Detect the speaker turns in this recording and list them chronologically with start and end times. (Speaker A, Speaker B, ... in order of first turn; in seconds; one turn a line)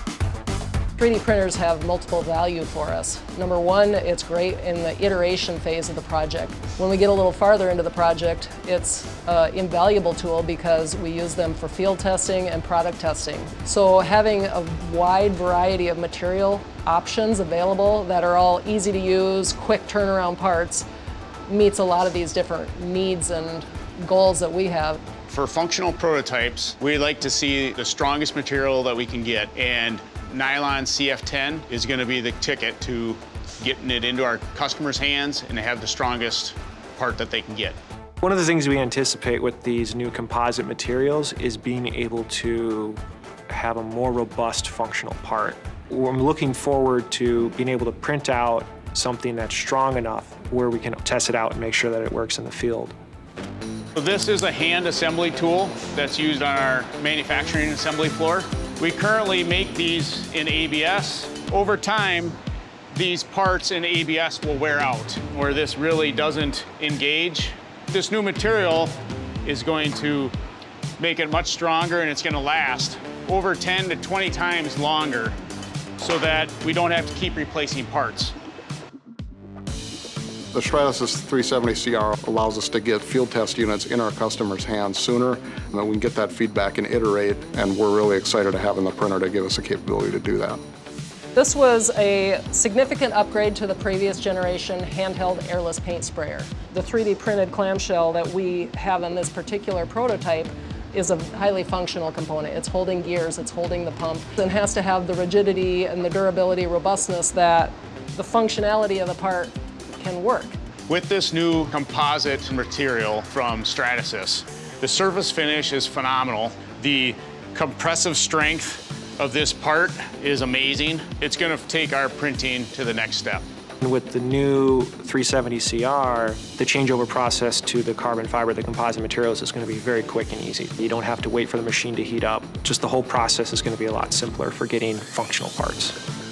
Speaker A: 1.0-20.9
Speaker A: 21.5-25.0
Speaker B: 25.3-37.8
Speaker C: 38.2-53.0
Speaker B: 53.9-62.4
Speaker B: 62.9-70.3
Speaker B: 71.0-75.3
Speaker B: 76.0-78.3
Speaker D: 80.5-90.6
Speaker A: 91.3-110.5
Speaker B: 110.9-123.4
Speaker C: 123.8-136.0